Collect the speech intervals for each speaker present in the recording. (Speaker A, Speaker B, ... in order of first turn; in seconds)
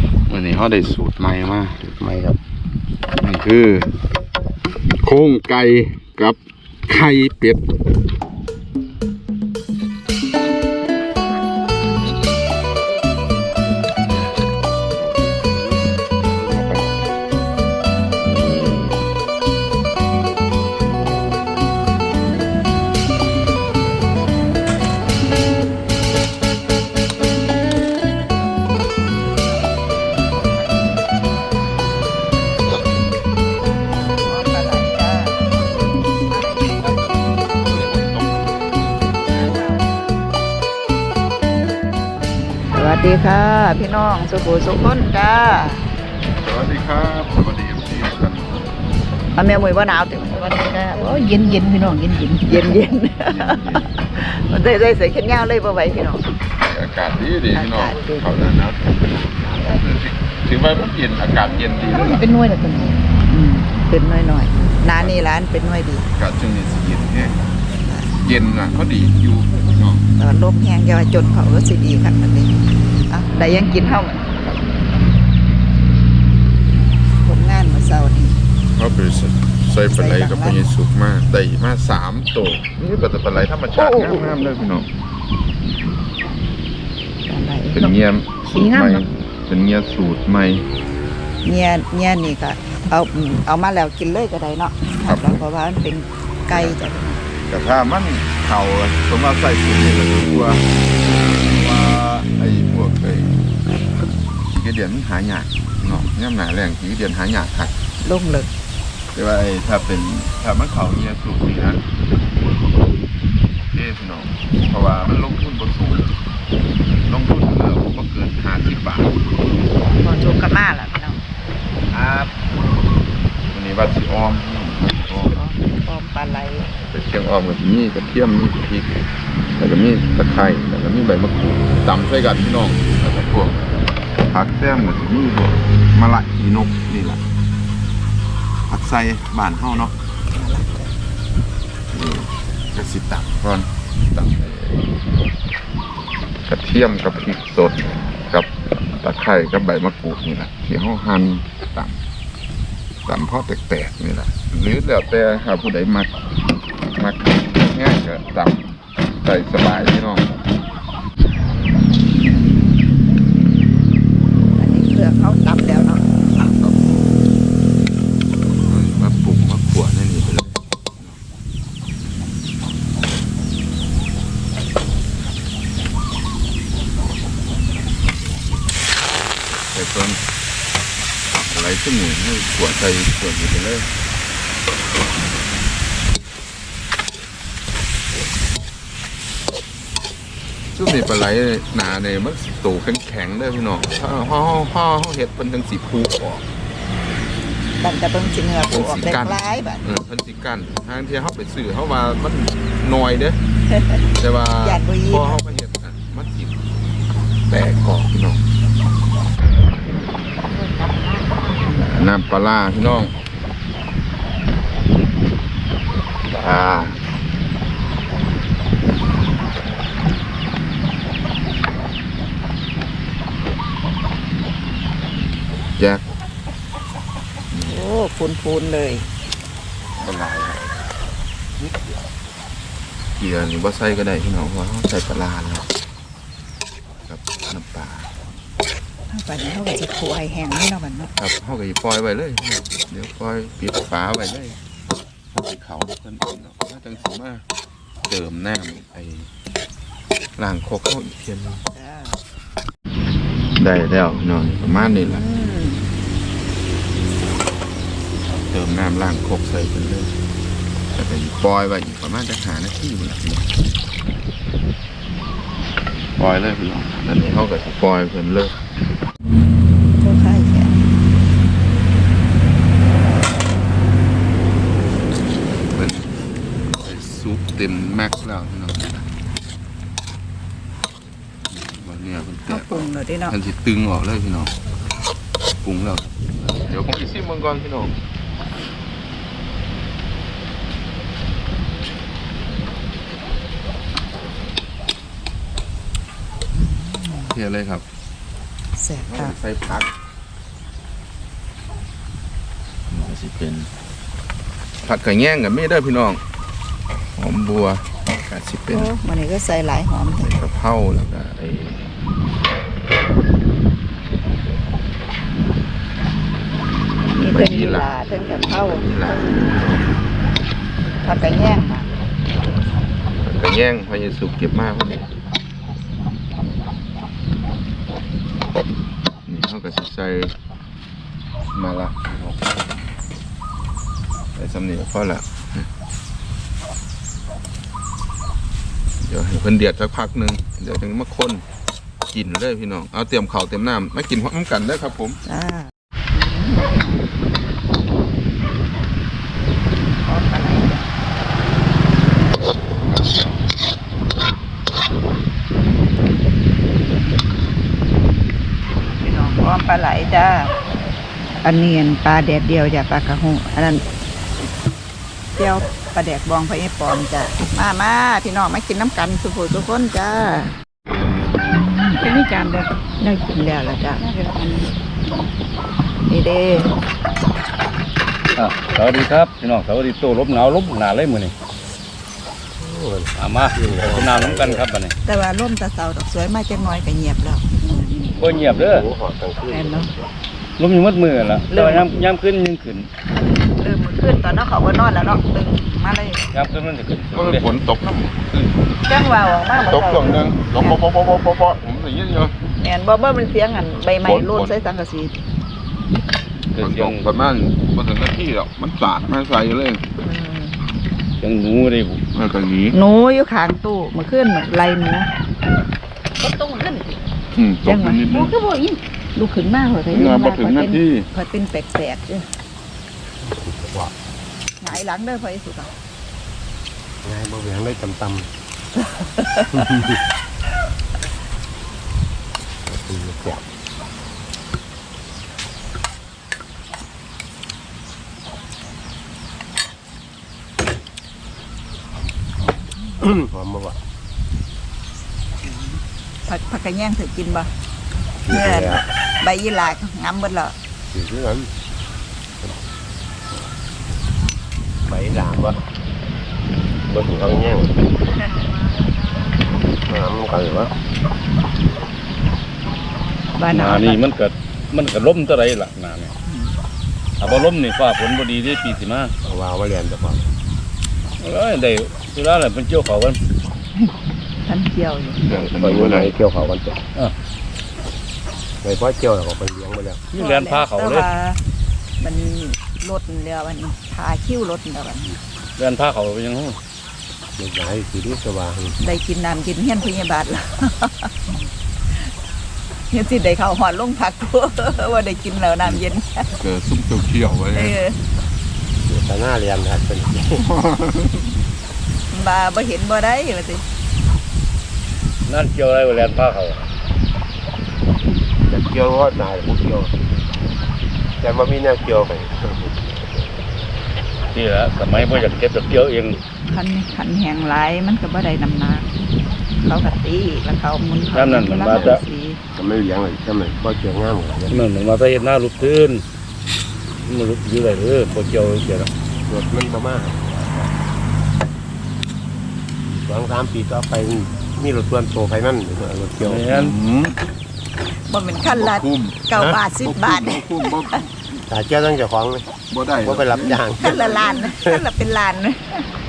Speaker A: 0.3-2.4, 3.1-4.0, 4.9-7.6, 15.0-15.8, 16.3-16.9, 18.2-19.0, 36.8-39.6, 46.4-48.7, 53.2-53.9, 56.6-62.3, 64.9-65.2, 66.1-67.4, 68.2-70.0, 74.4-75.9, 78.7-84.9, 87.7-90.7, 95.0-95.4, 96.5-96.8, 97.5-103.4, 104.5-107.7, 109.1-111.8, 113.7-116.1, 117.0-119.2, 121.9-122.3, 123.5-125.4, 126.9-128.9, 129.6-133.6, 134.2-137.2, 138.7-139.9, 141.9-144.8, 146.4-152.0, 153.1-156.1, 156.9-160.3, 166.3-167.0, 168.7-171.2, 178.0-178.4, 179.5-180.2, 181.3-183.9, 190.7-196.4, 198.7-203.4, 204.2-206.6, 207.5-208.4, 211.7-213.1, 216.3-216.9, 225.8-226.0, 227.5-227.8, 230.0-230.6, 233.2-235.7, 237.1-238.1, 241.2-244.6, 245.3-247.4, 248.1-249.3, 250.4-251.6, 253.6-255.2, 258.3-260.1, 260.9-263.5, 266.2-268.6, 275.7-276.1, 276.8-279.0, 281.5-284.5, 285.6-287.9, 297.3-297.8, 299.0-299.9, 302.9-303.7, 304.8-306.2, 307.2-308.9, 310.2-311.9, 317.1-317.9, 318.8-319.9, 323.2-325.1, 329.3-330.3, 331.5-332.7, 334.3-335.7, 339.0-341.4, 342.1-345.2, 352.8-353.4, 397.1-398.6, 399.6-402.3, 404.0-404.5, 406.5-409.8, 412.1-412.8, 417.3-418.4, 419.9-421.1, 475.2-476.1, 496.4-497.8, 500.4-501.3, 536.5-537.2, 538.5-541.4, 542.6-544.3
Speaker B: 34.2-35.6, 36.3-36.8, 39.3-40.0, 42.7-45.9, 49.3-51.2, 52.4-56.2, 57.5-58.4, 63.3-66.1, 67.8-68.2, 70.2-75.0, 77.2-78.4, 79.9-80.7, 83.8-84.3, 87.2-88.0, 91.4-97.2, 108.0-108.5, 120.0-121.2, 125.2-126.7, 140.3-140.8, 164.6-166.0, 197.8-199.8, 203.7-204.0, 204.6-205.4, 227.7-229.1, 239.1-241.1, 251.7-252.2, 255.0-255.8, 269.9-270.8, 282.5-283.4, 296.5-297.3, 298.8-299.4, 308.7-310.3, 317.2-319.2, 321.0-321.9, 345.2-347.0, 349.8-350.9, 359.0-360.5, 361.4-363.8, 365.4-370.5, 371.5-372.0, 373.0-374.0, 376.1-376.7, 385.0-387.4, 389.5-389.9, 391.5-391.9, 393.2-396.2, 398.8-400.8, 402.6-405.2, 410.0-410.6, 412.7-415.1, 417.6-418.1, 419.1-422.2, 424.6-425.7, 428.8-429.6, 445.4-447.5, 448.3-450.5, 463.3-464.0, 466.2-466.5, 473.8-475.2, 480.1-481.4, 482.0-485.1, 488.8-491.3, 492.9-496.3, 497.5-497.9, 502.1-503.6, 516.5-518.9, 519.6-522.4, 538.1-541.0, 543.8-545.9
Speaker C: 51.0-52.6, 61.9-63.0, 210.5-211.5, 372.0-372.7, 374.1-374.7, 416.2-417.0, 418.1-418.8
Speaker D: 378.4-381.3, 383.1-384.9, 388.2-388.9, 390.6-392.9, 396.3-397.5, 406.5-407.1, 411.2-412.0, 463.5-466.1, 467.2-469.1, 471.2-473.2, 480.1-481.1, 485.6-486.6, 505.2-506.7, 514.3-516.2, 521.1-522.0, 524.5-526.0, 527.0-528.9, 536.2-536.7
Speaker E: 382.6-384.6, 388.4-390.1, 423.2-423.9, 427.0-428.3, 429.5-430.0, 432.6-433.4, 443.0-443.8, 448.2-448.8, 450.9-451.5, 454.9-455.6, 456.9-457.7, 459.8-460.7, 469.2-470.3, 475.3-476.8, 478.6-480.0, 487.4-488.8, 498.9-500.5, 508.5-509.9, 511.2-512.8, 521.7-522.0, 522.5-524.6, 529.3-530.7, 532.8-536.5, 541.5-544.8